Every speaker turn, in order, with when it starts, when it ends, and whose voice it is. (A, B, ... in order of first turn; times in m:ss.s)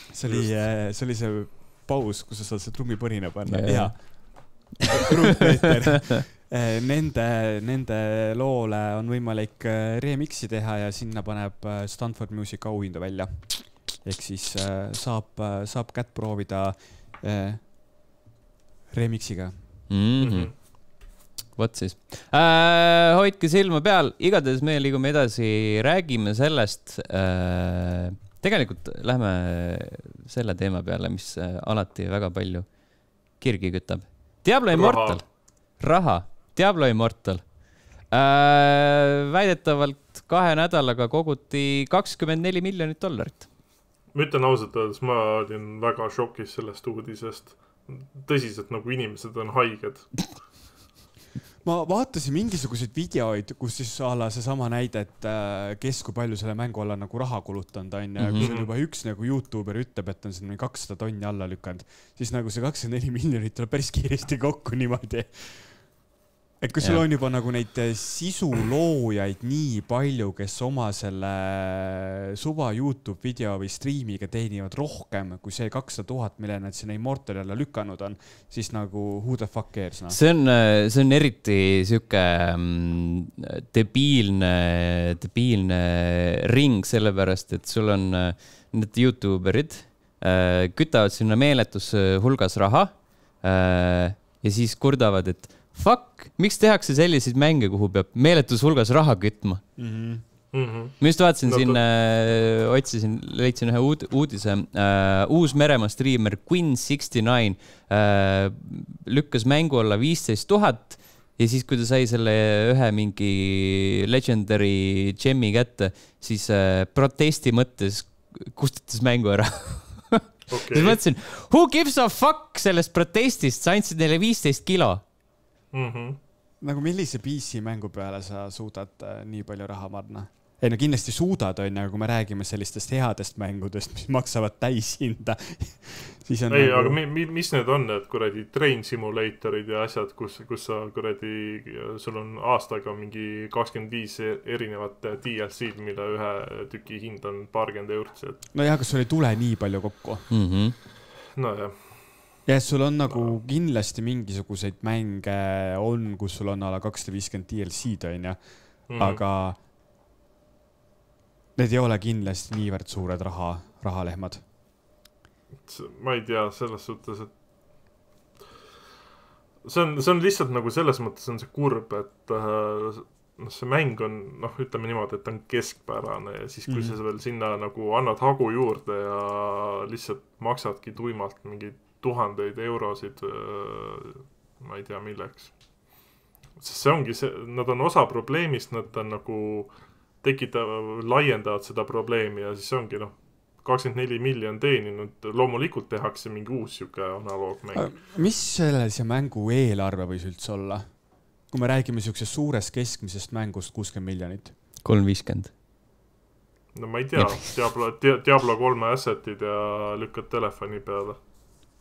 0:00.1-0:17.6 A
0:03.4-0:05.0 B
0:18.9-0:19.5 A
0:19.9-0:20.7 B
0:20.2-0:20.5 C
0:21.5-0:32.7 B
0:33.4-0:35.2 B
0:34.7-0:35.2 C
0:35.8-0:37.4 B
0:38.1-0:43.5 B
0:44.1-0:50.3 C
0:51.6-1:05.6 A
0:58.2-0:58.5 B
0:58.4-0:58.7 C
1:06.6-1:20.2 A
1:06.8-1:07.0 B
1:20.1-1:39.6 B
1:39.8-1:40.2 A
1:40.5-1:41.8 C
1:41.0-2:05.0 B
2:00.5-2:01.0 C
2:05.7-2:06.2 C
2:06.6-2:17.0 A
2:16.5-2:28.4 C
2:28.5-2:30.3 A
2:30.3-2:30.7 B
2:31.3-2:32.2 C
2:32.4-2:38.4 A
2:33.1-2:33.4 C
2:38.9-2:39.2 C
2:38.9-2:39.6 A
2:41.6-2:44.4 A
2:45.7-2:47.3 C
2:49.6-3:05.5 C
2:56.7-2:57.0 A
3:06.6-3:18.0 C
3:17.7-3:20.9 A
3:21.5-3:24.5 A
3:24.8-3:25.5 B
3:26.7-3:31.2 C
3:27.2-3:27.4 B